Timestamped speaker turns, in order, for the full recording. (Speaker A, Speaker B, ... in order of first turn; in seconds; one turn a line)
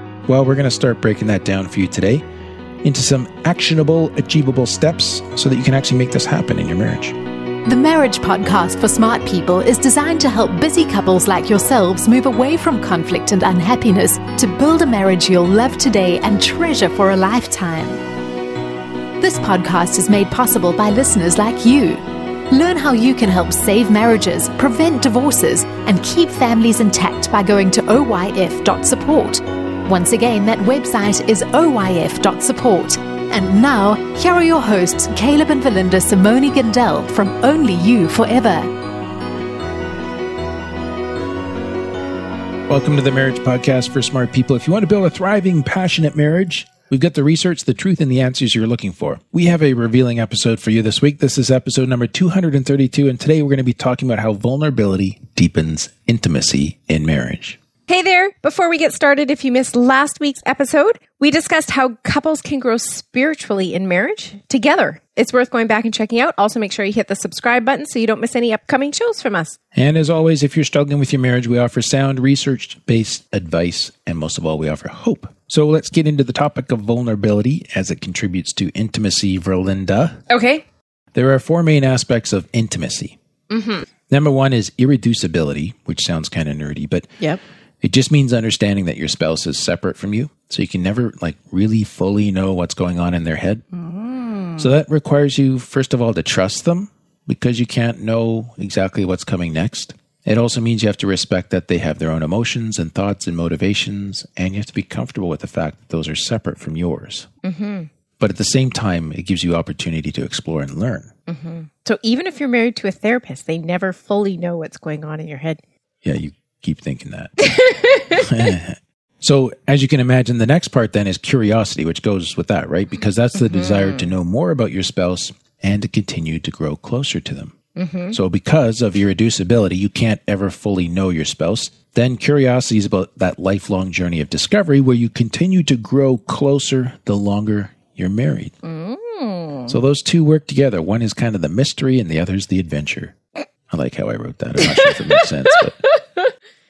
Speaker A: 0.2-2.2
Speaker A: 2.8-7.2
Speaker B: 7.7-18.0
Speaker B: 19.2-38.7
Speaker A: 42.7-57.6
Speaker C: 57.9-69.6
Speaker A: 69.7-80.2
Speaker C: 80.3-80.6
Speaker A: 81.1-83.2
Speaker C: 83.5-83.8
Speaker A: 84.1-87.1
Speaker A: 87.8-93.6
Speaker C: 93.7-94.7
Speaker A: 94.6-107.3
Speaker C: 107.4-107.9
Speaker A: 108.2-111.1
Speaker C: 111.3-115.6
Speaker A: 116.0-117.4
Speaker C: 117.4-118.5
Speaker A: 118.0-127.6
Speaker C: 123.3-124.1
Speaker C: 127.8-128.2
Speaker A: 128.1-138.5
Speaker C: 138.6-139.8
Speaker A: 139.7-143.2
Speaker A: 143.7-145.8
Speaker C: 144.6-146.3